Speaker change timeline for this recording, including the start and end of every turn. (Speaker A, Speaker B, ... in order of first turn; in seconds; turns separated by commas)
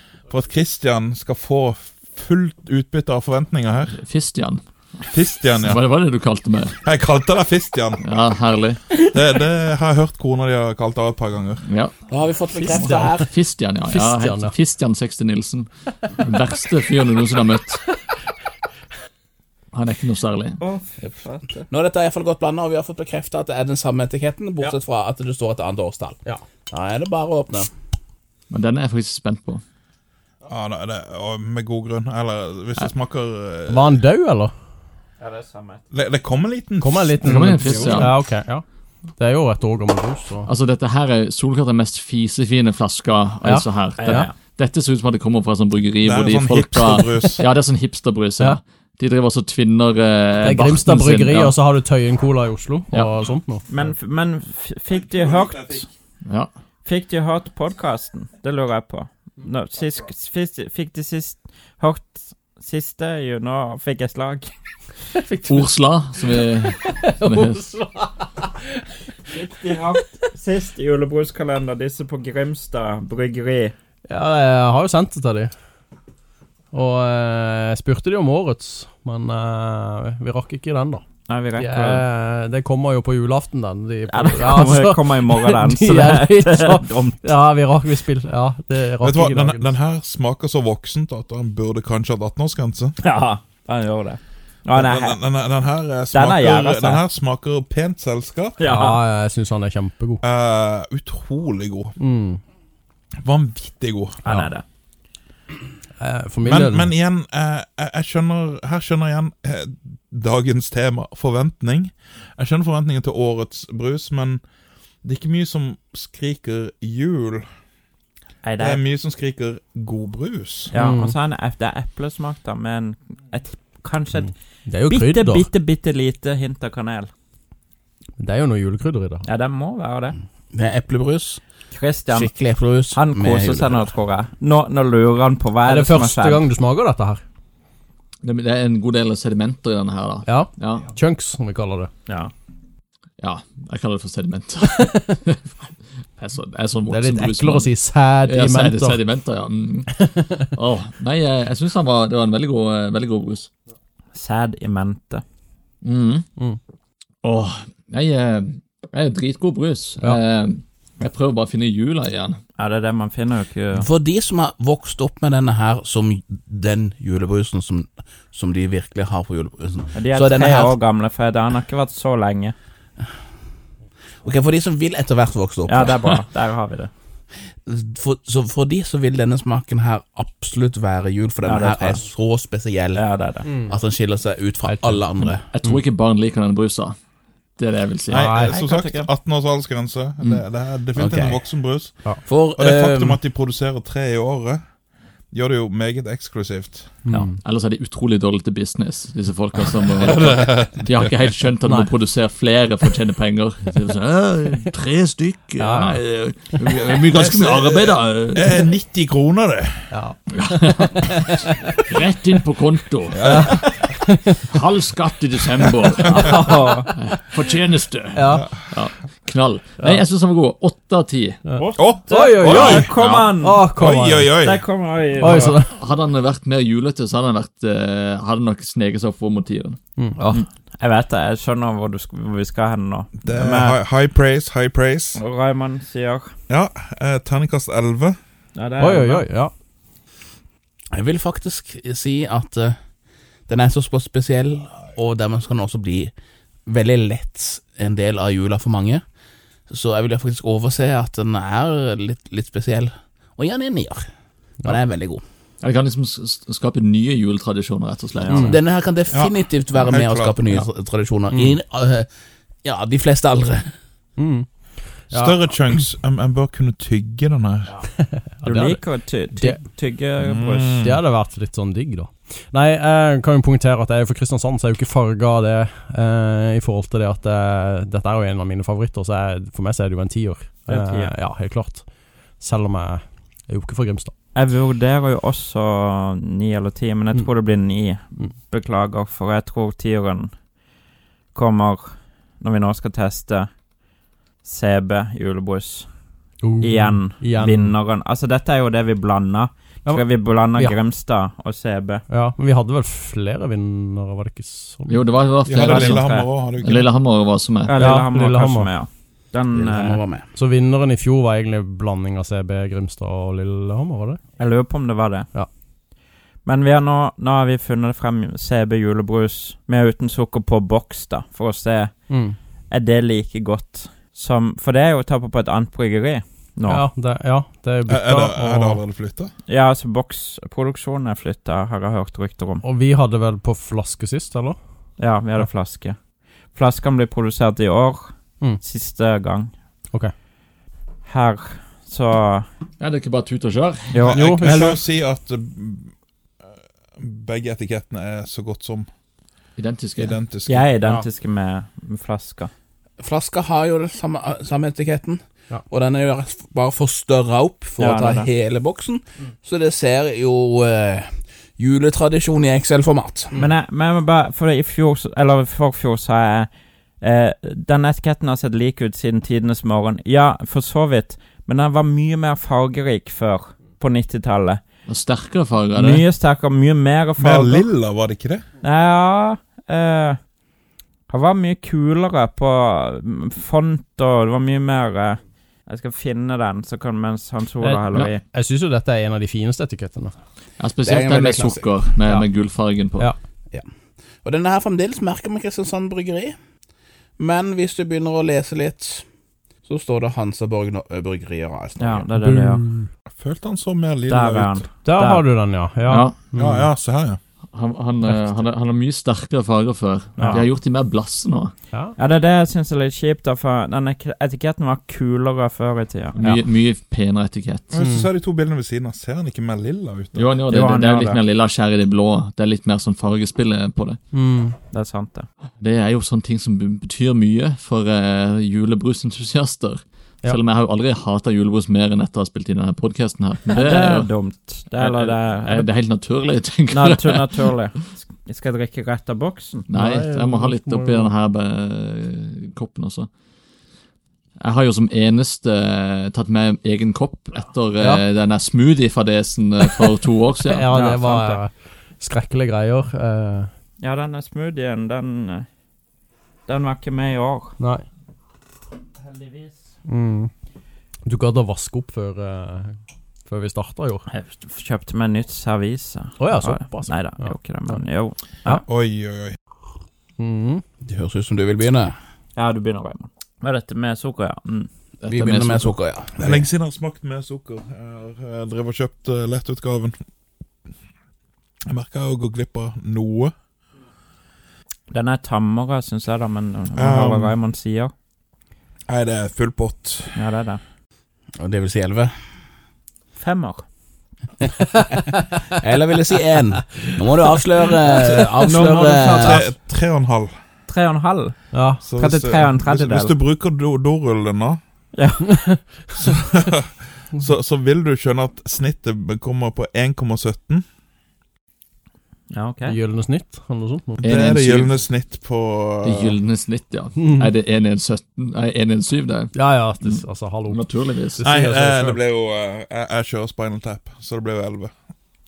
Speaker A: 0.3-4.0, Speaker B: 4.0-4.6, Speaker A: 5.1-5.8, Speaker B: 5.6-6.8, Speaker A: 6.8-8.0, Speaker B: 8.0-8.8, Speaker A: 9.1-11.7, Speaker B: 11.7-11.9, Speaker C: 12.1-13.3, Speaker D: 12.6-13.2, Speaker B: 12.7-17.8, Speaker D: 13.9-14.5, Speaker B: 19.7-20.6, Speaker E: 20.6-21.7, Speaker C: 21.7-27.7, Speaker B: 28.5-29.6, Speaker A: 30.5-34.0, Speaker D: 33.7-34.5, Speaker E: 35.2-35.8, Speaker A: 35.9-38.1, Speaker D: 36.8-38.6, Speaker B: 37.2-38.1, Speaker D: 39.2-40.5, Speaker B: 40.5-51.6, Speaker D: 43.4-44.3, Speaker E: 44.0-44.4, Speaker A: 46.0-47.4, Speaker D: 50.4-53.6, Speaker E: 53.7-55.9, Speaker A: 55.3-55.8, Speaker E: 56.9-64.5, Speaker D: 65.1-68.9, Speaker B: 65.5-67.6, Speaker E: 69.3-73.7, Speaker D: 74.1-75.5, Speaker D: 76.7-81.0, Speaker E: 81.3-82.0, Speaker D: 81.6-89.7, Speaker E: 84.1-87.3, Speaker A: 89.0-93.0, Speaker E: 93.0-95.2, Speaker A: 94.8-98.7, Speaker E: 96.1-97.0, Speaker E: 98.6-99.0, Speaker D: 98.6-100.2, Speaker A: 100.2-102.0, Speaker D: 102.0-102.4, Speaker A: 103.2-104.2, Speaker E: 104.2-104.6, Speaker D: 106.0-106.9, Speaker A: 106.4-114.4, Speaker A: 115.0-117.5, Speaker E: 118.4-118.8, Speaker A: 118.6-120.7, Speaker E: 120.7-124.3, Speaker D: 120.8-121.2, Speaker D: 124.3-125.5, Speaker E: 124.9-127.1, Speaker D: 128.2-129.2, Speaker E: 129.2-130.2, Speaker C: 130.5-131.4, Speaker E: 131.7-132.3, Speaker C: 132.1-133.9, Speaker E: 132.9-136.4, Speaker D: 135.6-137.2, Speaker B: 138.2-140.9, Speaker D: 140.3-141.9, Speaker E: 142.1-142.3, Speaker B: 143.2-145.6, Speaker D: 144.7-145.2, Speaker B: 146.2-147.7, Speaker D: 146.9-149.0, Speaker B: 148.3-153.5, Speaker D: 150.0-150.5, Speaker E: 154.2-155.2, Speaker B: 155.8-156.3, Speaker B: 157.2-162.4, Speaker E: 162.6-163.9, Speaker C: 163.8-170.8, Speaker E: 169.9-172.6, Speaker C: 174.2-176.2, Speaker E: 175.7-176.9, Speaker C: 177.7-183.0, Speaker E: 181.5-182.1, Speaker E: 182.9-183.7, Speaker D: 183.5-183.7, Speaker C: 183.6-185.5, Speaker D: 184.7-185.8, Speaker B: 185.5-187.0, Speaker B: 187.6-188.2, Speaker A: 188.1-192.0, Speaker D: 188.1-188.6, Speaker E: 188.5-189.1, Speaker C: 191.0-191.4, Speaker C: 192.2-193.2, Speaker A: 192.6-194.6, Speaker A: 195.3-196.9, Speaker D: 197.1-197.4, Speaker B: 197.1-208.6, Speaker A: 200.0-201.1, Speaker D: 205.6-206.0, Speaker A: 207.0-209.9, Speaker D: 209.9-211.8, Speaker B: 210.3-213.2, Speaker A: 213.1-213.5, Speaker D: 213.2-214.4, Speaker B: 214.4-221.4, Speaker E: 216.2-216.9, Speaker D: 216.3-216.8, Speaker D: 218.1-218.5, Speaker D: 221.5-224.3, Speaker E: 221.6-223.7, Speaker A: 221.8-224.7, Speaker E: 224.4-225.6, Speaker D: 225.2-225.7, Speaker B: 225.4-229.8, Speaker D: 230.0-230.4, Speaker E: 230.3-233.8, Speaker A: 233.2-235.2, Speaker E: 235.2-236.3, Speaker A: 236.5-238.2, Speaker E: 238.6-239.2, Speaker D: 238.8-239.5, Speaker C: 240.9-242.8, Speaker C: 243.5-246.1, Speaker C: 246.7-249.0, Speaker C: 249.7-254.1, Speaker C: 254.6-255.2, Speaker B: 255.6-258.5, Speaker E: 258.2-258.5, Speaker D: 258.3-258.6, Speaker C: 258.4-262.1, Speaker A: 259.1-260.4, Speaker D: 261.3-261.6, Speaker C: 262.6-263.7, Speaker D: 264.2-265.5, Speaker A: 265.1-267.8, Speaker D: 268.1-268.8, Speaker E: 268.4-271.0, Speaker A: 270.2-271.0, Speaker D: 270.8-281.9, Speaker E: 280.7-281.1, Speaker D: 282.4-284.1, Speaker E: 284.4-290.3, Speaker E: 291.3-293.5, Speaker E: 294.4-295.9, Speaker D: 296.4-297.8, Speaker E: 296.6-302.1, Speaker D: 302.1-305.0, Speaker B: 304.9-306.1, Speaker A: 305.5-306.9, Speaker E: 305.6-306.3, Speaker B: 306.6-307.8, Speaker E: 307.7-310.0, Speaker D: 307.8-308.7, Speaker C: 309.5-310.3, Speaker D: 310.3-314.2, Speaker E: 314.4-315.3, Speaker E: 316.4-322.0, Speaker D: 322.1-322.4, Speaker E: 322.7-326.9, Speaker D: 326.7-328.8, Speaker A: 327.9-329.3, Speaker E: 329.5-332.6, Speaker D: 332.6-334.6, Speaker E: 335.0-336.0, Speaker E: 336.5-339.5, Speaker E: 341.1-342.5, Speaker B: 342.8-344.0, Speaker E: 343.9-344.7, Speaker A: 344.1-345.9, Speaker D: 344.1-344.8, Speaker A: 347.0-348.9, Speaker B: 349.6-350.2, Speaker A: 350.0-350.7, Speaker E: 350.5-352.5, Speaker C: 353.0-363.3, Speaker E: 357.8-358.3, Speaker E: 363.4-366.5, Speaker E: 367.0-374.6, Speaker B: 374.9-376.0, Speaker E: 375.8-377.7, Speaker A: 377.2-378.4, Speaker E: 378.6-380.2, Speaker E: 381.1-388.2, Speaker D: 387.6-390.1, Speaker B: 390.6-393.1, Speaker C: 390.8-391.7, Speaker C: 394.2-396.4, Speaker C: 397.2-399.1, Speaker C: 399.6-402.1, Speaker E: 401.8-402.6, Speaker D: 402.2-402.9, Speaker A: 403.1-404.6, Speaker E: 404.1-405.2, Speaker D: 404.9-406.7, Speaker B: 405.9-406.1, Speaker A: 406.3-407.2, Speaker B: 407.5-411.5, Speaker D: 408.1-408.4, Speaker D: 410.2-410.4, Speaker E: 412.0-416.4, Speaker B: 416.2-417.7, Speaker A: 417.7-420.3, Speaker D: 417.8-418.1, Speaker B: 420.1-424.0, Speaker E: 420.5-421.2, Speaker D: 424.1-424.6, Speaker E: 424.7-425.3, Speaker B: 425.6-434.1, Speaker E: 433.5-435.7, Speaker B: 434.8-437.5, Speaker E: 436.7-439.7, Speaker B: 439.7-443.1, Speaker D: 439.7-441.1, Speaker B: 444.4-450.7, Speaker D: 450.5-453.5, Speaker E: 450.7-451.4, Speaker E: 453.8-455.5, Speaker E: 456.5-457.6, Speaker D: 457.6-457.8, Speaker E: 459.0-459.6, Speaker D: 459.9-460.3, Speaker D: 461.1-464.1, Speaker E: 464.1-468.6, Speaker D: 466.2-467.8, Speaker A: 468.6-469.4, Speaker D: 470.2-470.6, Speaker C: 470.8-471.9, Speaker E: 472.4-474.7, Speaker B: 475.0-475.8, Speaker C: 475.1-476.5, Speaker A: 476.2-480.0, Speaker A: 481.7-483.3, Speaker E: 484.9-487.9, Speaker A: 486.8-487.3, Speaker A: 488.9-490.2, Speaker E: 490.1-490.6, Speaker C: 491.4-492.1, Speaker E: 493.2-493.6, Speaker D: 494.6-495.4, Speaker C: 495.6-499.4, Speaker A: 498.0-500.4, Speaker E: 498.4-499.4, Speaker E: 500.7-503.1, Speaker D: 501.5-501.8, Speaker A: 501.9-504.6, Speaker E: 504.9-505.5, Speaker A: 505.9-510.6, Speaker E: 512.3-512.8, Speaker D: 512.7-514.0, Speaker B: 514.0-514.8, Speaker A: 514.0-516.2, Speaker B: 515.8-521.2, Speaker D: 517.0-517.3, Speaker D: 519.3-520.6, Speaker D: 521.2-522.0, Speaker A: 521.2-524.7